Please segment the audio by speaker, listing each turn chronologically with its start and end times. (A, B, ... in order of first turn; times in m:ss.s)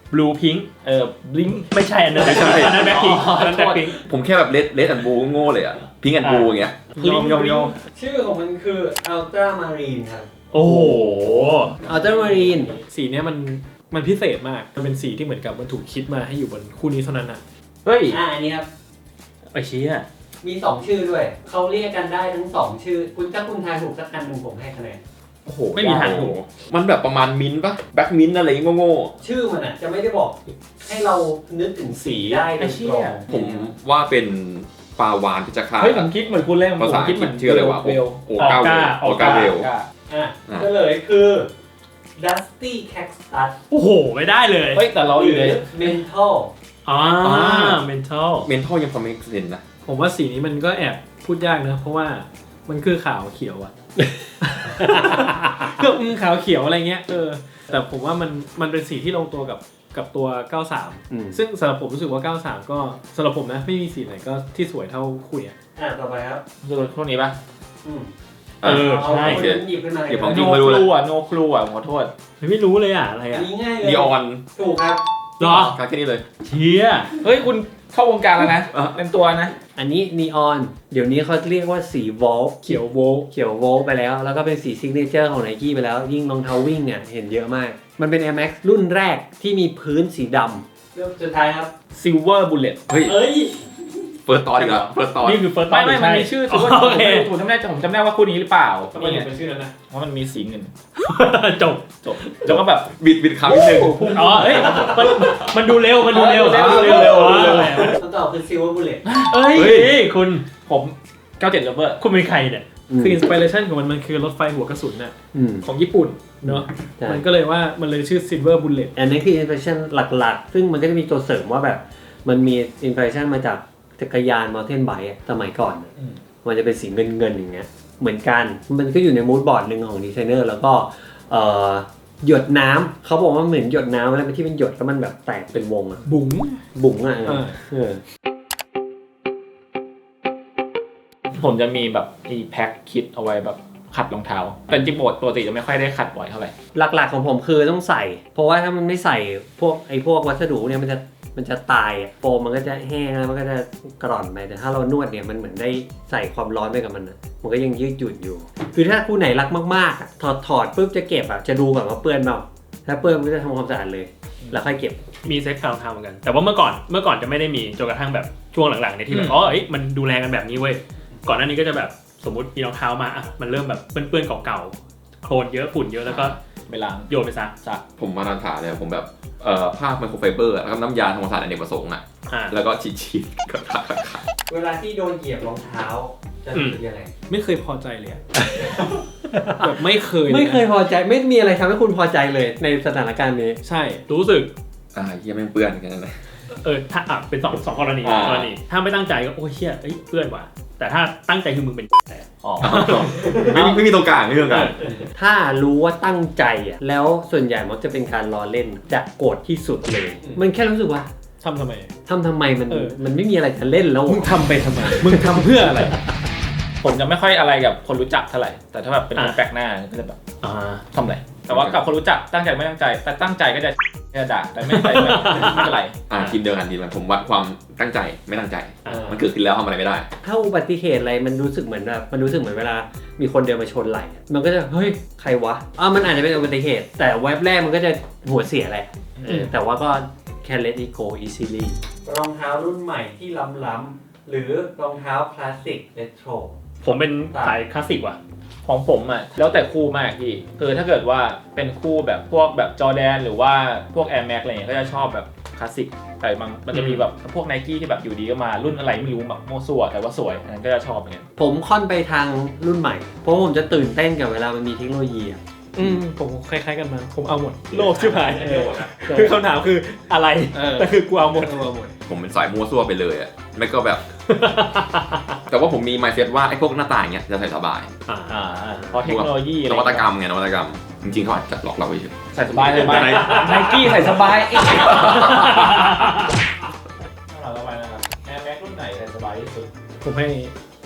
0:00.1-0:00.7 A
0:00.8-0:03.9 B
0:01.7-0:04.0 A
0:02.2-0:02.8 C
0:04.0-0:07.7 C
0:06.2-0:06.6 A
0:07.0-0:07.7 D
0:07.8-0:10.3 E
0:10.5-0:11.8 A
0:11.8-0:12.8 E
0:11.8-0:17.4 D
0:17.8-0:18.2 B
0:18.1-0:18.6 E
0:19.5-0:20.0 A
0:20.4-0:25.0 E
0:25.4-0:29.1 C
0:25.7-0:26.3 A
0:29.2-0:33.7 E
0:32.6-0:33.2 B
0:33.3-0:36.1 C
0:35.8-0:38.5 B
0:36.8-0:39.7 C
0:38.4-0:39.5 A
0:39.1-0:39.9 B
0:40.1-0:41.5 E
0:42.2-0:43.5 E
0:43.7-0:44.8 A
0:44.7-0:46.0 B
0:45.1-0:46.5 E
0:46.8-0:48.5 A
0:47.2-0:47.8 C
0:48.4-0:49.6 C
0:49.8-0:53.7 D
0:54.4-1:05.5 D
0:54.8-0:55.6 E
1:01.1-1:01.4 E
1:05.8-1:06.4 E
1:06.6-1:07.4 B
1:07.8-1:08.1 E
1:08.6-1:10.9 C
1:08.6-1:09.5 A
1:08.7-1:10.7 E
1:10.2-1:12.1 B
1:12.4-1:13.5 A
1:13.3-1:15.0 E
1:13.8-1:14.4 C
1:15.4-1:15.8 A
1:15.4-1:16.2 C
1:16.4-1:17.1 A
1:17.2-1:19.5 B
1:19.8-1:31.7 E
1:22.6-1:23.3 D
1:31.9-1:32.9 B
1:32.9-1:33.2 C
1:33.0-1:33.8 E
1:34.3-1:35.4 C
1:34.5-1:34.9 B
1:35.2-1:37.3 A
1:35.7-1:39.3 B
1:38.9-1:39.7 D
1:39.9-1:40.7 B
1:41.0-1:42.4 A
1:42.0-1:42.9 B
1:42.4-1:44.5 C
1:43.5-1:44.9 D
1:44.1-1:48.0 A
1:44.4-1:45.0 E
1:46.1-1:47.8 C
1:46.2-1:47.9 B
1:47.6-1:49.0 E
1:49.0-1:49.9 B
1:49.3-1:50.4 A
1:50.5-1:52.0 B
1:52.0-1:52.6 A
1:52.9-1:53.2 E
1:53.0-1:55.1 D
1:55.3-1:55.6 E
1:55.6-1:56.4 B
1:56.4-1:57.2 E
1:56.4-1:58.9 D
1:59.0-2:05.9 E
2:06.4-2:16.0 E
2:16.0-2:16.6 D
2:16.7-2:18.0 E
2:17.2-2:17.5 D
2:21.3-2:26.5 B
2:26.7-2:45.0 E
2:45.2-2:56.4 A
2:49.1-2:49.4 B
2:56.6-2:57.1 B
2:57.1-2:57.5 A
2:58.0-3:04.2 C
3:02.3-3:02.6 A
3:04.5-3:07.1 E
3:07.3-3:08.2 D
3:08.3-3:13.6 E
3:09.6-3:10.6 D
3:13.6-3:14.0 D
3:14.1-3:14.5 A
3:14.9-3:16.3 C
3:16.5-3:23.8 A
3:18.0-3:18.5 C
3:22.6-3:24.8 C
3:24.5-3:24.9 A
3:25.1-3:31.1 E
3:31.4-3:31.9 D
3:32.0-3:34.4 E
3:32.7-3:33.0 D
3:34.1-3:36.0 D
3:34.4-3:35.4 B
3:36.8-3:40.2 B
3:40.4-3:40.8 A
3:40.9-3:46.3 B
3:41.5-3:41.8 C
3:44.8-3:45.6 A
3:46.1-3:50.1 C
3:48.8-3:49.1 A
3:48.9-3:49.3 E
3:50.2-4:06.6 E
3:59.2-3:59.5 B
4:06.8-4:08.2 A
4:07.3-4:07.6 E
4:08.6-4:21.2 B
4:16.7-4:17.0 A
4:21.4-4:26.0 E
4:25.8-4:31.6 D
4:27.7-4:29.4 E
4:30.5-4:31.9 E
4:32.1-4:34.0 C
4:34.3-4:35.4 A
4:35.5-4:37.9 C
4:38.1-4:38.4 A
4:38.3-4:40.0 B
4:39.0-4:43.8 C
4:42.3-4:45.9 B
4:43.2-4:44.0 A
4:44.6-4:46.4 A
4:44.8-4:45.4 C
4:47.3-4:49.7 B
4:50.0-4:50.5 D